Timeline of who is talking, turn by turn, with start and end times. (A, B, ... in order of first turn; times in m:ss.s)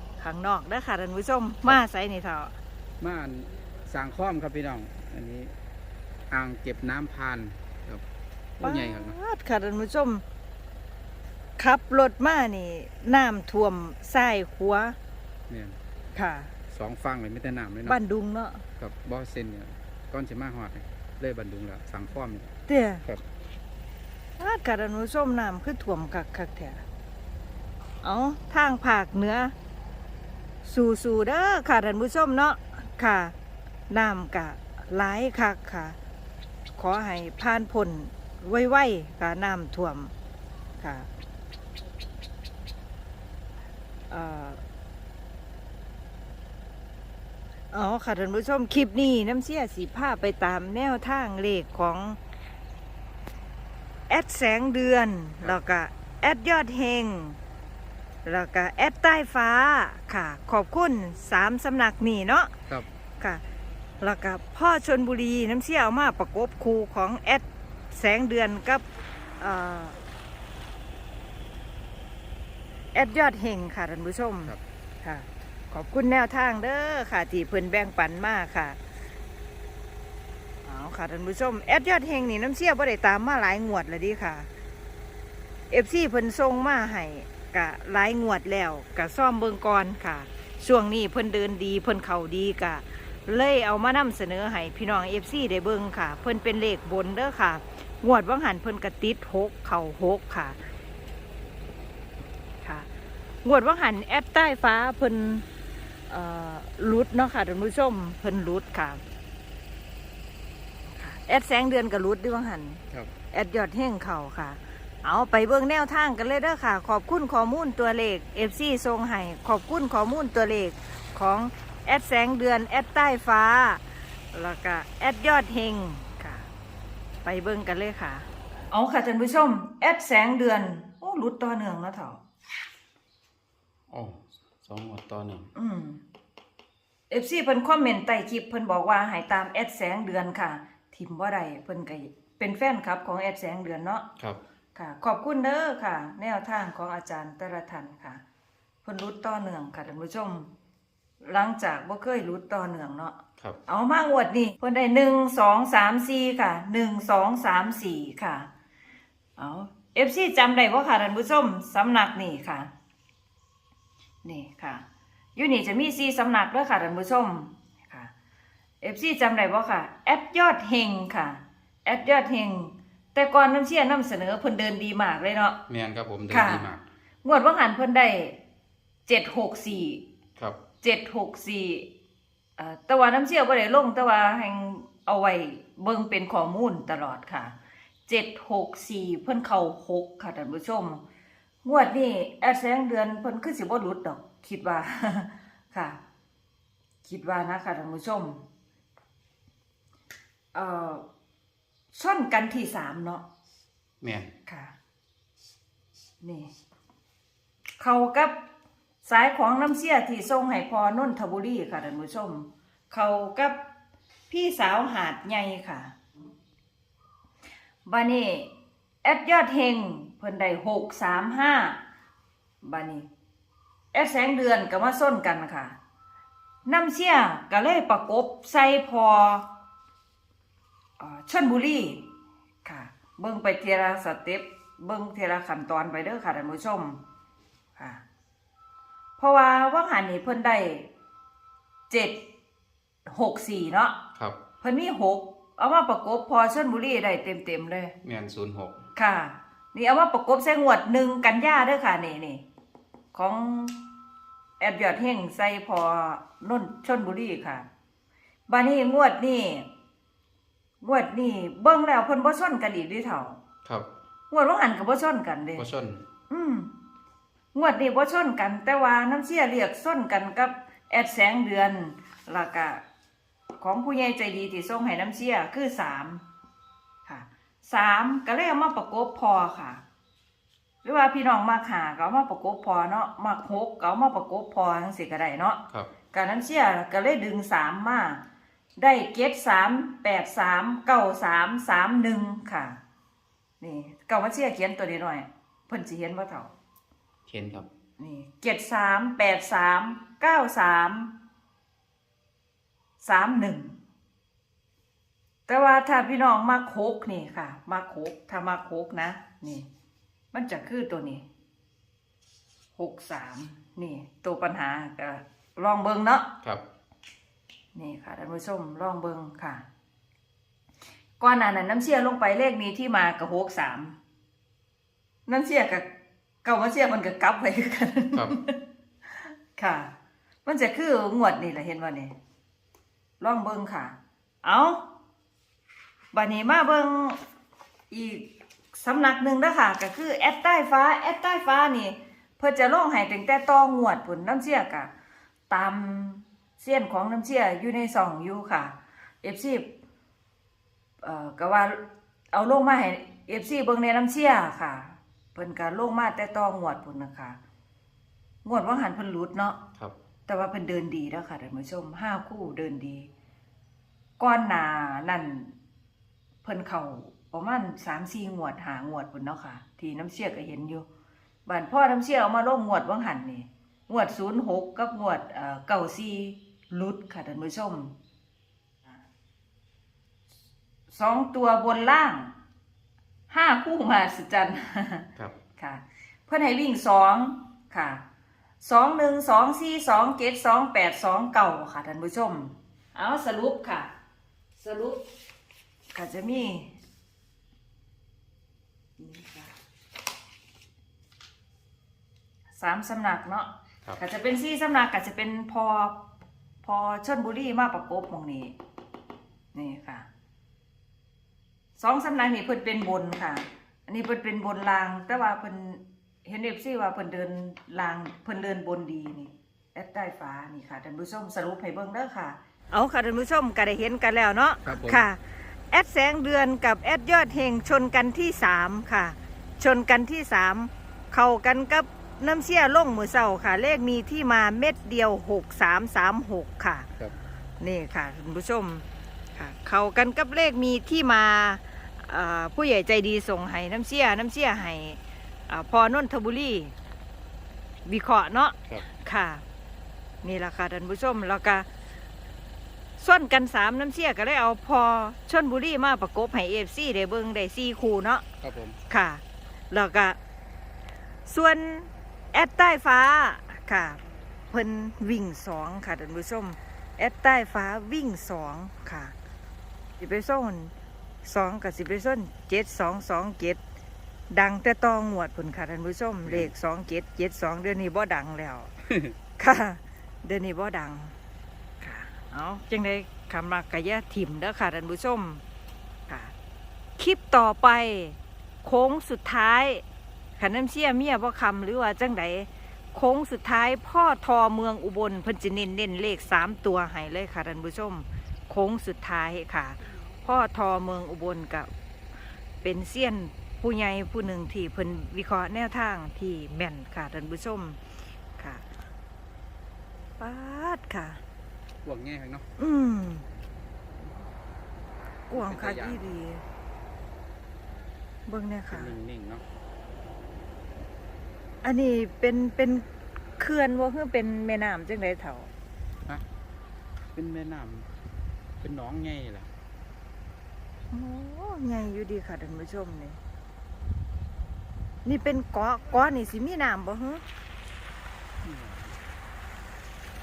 0:00.2-0:02.6 A
0:03.0-0:05.6 B
0:06.3-0:08.0 B
0:08.6-0:09.2 B
0:08.6-0:10.2 A
0:11.6-0:15.0 A
0:15.5-0:15.8 B
0:16.2-0:16.5 A
0:16.7-0:18.0 B
0:17.8-0:18.6 A
0:18.8-0:22.5 B
0:22.7-0:23.0 A
0:24.4-0:26.8 A
0:28.0-0:29.5 A
0:30.6-0:33.3 A
0:33.9-0:36.0 A
0:36.8-0:40.1 A
0:40.8-0:41.1 A
0:44.1-0:44.6 A
0:47.7-0:52.2 A
0:54.1-0:57.4 A
0:58.3-1:02.5 A
1:04.0-1:08.8 A
1:09.4-1:10.0 A
1:12.9-1:18.8 A
1:20.6-1:24.5 A
1:25.7-1:40.6 A
1:42.6-1:42.9 A
1:43.4-1:45.4 A
1:46.1-1:49.0 A
1:50.9-2:06.5 A
2:07.2-2:12.2 A
2:13.9-2:15.5 B
2:15.6-2:16.0 A
2:17.1-2:24.0 A
2:24.8-2:28.2 A
2:28.8-2:30.5 A
2:31.2-2:38.5 A
2:39.4-2:42.7 A
2:44.2-2:44.8 A
2:45.4-2:48.1 A
2:48.8-2:55.6 A
2:55.7-2:56.8 B
2:56.3-2:56.7 A
2:57.2-2:58.4 A
2:59.1-3:00.0 A
3:00.8-3:01.9 A
3:02.6-3:07.6 A
3:08.1-3:11.0 A
3:11.6-3:16.0 A
3:17.0-3:18.4 A
3:20.5-3:21.0 A
3:21.9-3:23.2 A
3:24.0-3:24.3 B
3:24.5-3:24.7 A
3:26.2-3:26.5 A
3:27.8-3:28.4 A
3:29.0-3:33.6 A
3:34.3-3:35.9 A
3:37.9-3:38.5 A
3:39.0-3:41.8 A
3:42.6-3:43.1 A
3:43.9-3:45.8 A
3:46.7-3:49.5 A
3:51.0-3:52.0 A
3:52.6-3:57.0 A
3:57.8-3:58.0 A
3:59.2-4:00.9 A
4:01.9-4:02.2 A
4:03.1-4:04.0 A
4:04.6-4:08.0 A
4:08.0-4:08.8 B
4:09.0-4:12.4 A
4:13.1-4:13.8 A
4:14.6-4:17.7 A
4:18.5-4:19.7 A
4:20.8-4:23.4 A
4:24.3-4:25.7 A
4:25.6-4:26.0 B
4:26.3-4:26.7 A
4:27.5-4:32.8 A
4:33.6-4:36.2 A
4:37.1-4:39.8 A
4:40.8-4:45.6 A
4:46.1-4:48.2 A
4:48.8-4:52.8 A
4:53.6-4:56.5 A
4:57.3-4:57.7 B
4:58.0-5:01.1 A
5:03.0-5:03.8 A
5:05.5-5:09.7 A
5:10.3-5:11.2 A
5:12.8-5:16.3 A
5:17.7-5:19.6 A
5:21.2-5:24.0 A
5:25.3-5:25.9 A
5:26.4-5:28.6 A
5:29.2-5:29.9 A
5:30.4-5:32.1 A
5:33.2-5:34.8 A
5:36.1-5:37.2 A
5:37.9-5:44.9 A
5:45.5-5:49.7 A
5:51.0-5:51.8 A
5:52.3-5:57.4 A
5:58.4-5:59.6 A
6:00.3-6:03.1 A
6:04.2-6:05.6 A
6:06.4-6:10.9 A
6:11.5-6:17.9 A
6:20.9-6:22.3 A
6:23.3-6:28.0 A
6:28.6-6:33.9 A
6:34.6-6:35.0 A
6:35.9-6:36.7 A
6:39.0-6:39.6 A
6:42.6-6:46.0 A
6:46.6-6:48.5 A
6:49.5-6:50.1 A
6:51.8-7:16.9 A
7:04.6-7:05.1 B
7:17.6-7:26.7 A
7:27.9-7:29.4 A
7:30.2-7:31.7 A
7:33.0-7:38.2 A
7:38.4-7:38.8 B
7:38.9-7:40.2 A
7:41.3-7:44.0 A
7:44.5-7:49.2 A
7:50.0-7:50.7 A
7:51.2-7:53.6 A
7:54.3-7:58.7 A
7:56.2-7:56.5 B
7:59.4-8:01.1 A
8:01.8-8:05.4 A
8:06.1-8:06.3 A
8:07.0-8:09.8 A
8:10.4-8:21.7 A
8:22.6-8:27.8 A
8:28.4-8:28.6 A
8:30.2-8:31.2 A
8:31.8-8:32.5 B
8:32.6-8:33.3 A
8:35.3-8:36.4 A
8:35.3-8:36.0 B
8:38.3-8:38.9 A
8:38.7-8:39.4 B
8:41.6-8:42.9 A
8:43.4-8:45.5 A
8:47.2-8:47.9 B
8:48.6-8:49.5 B
8:50.9-8:53.2 A
8:55.0-8:57.2 A
8:58.4-8:58.9 B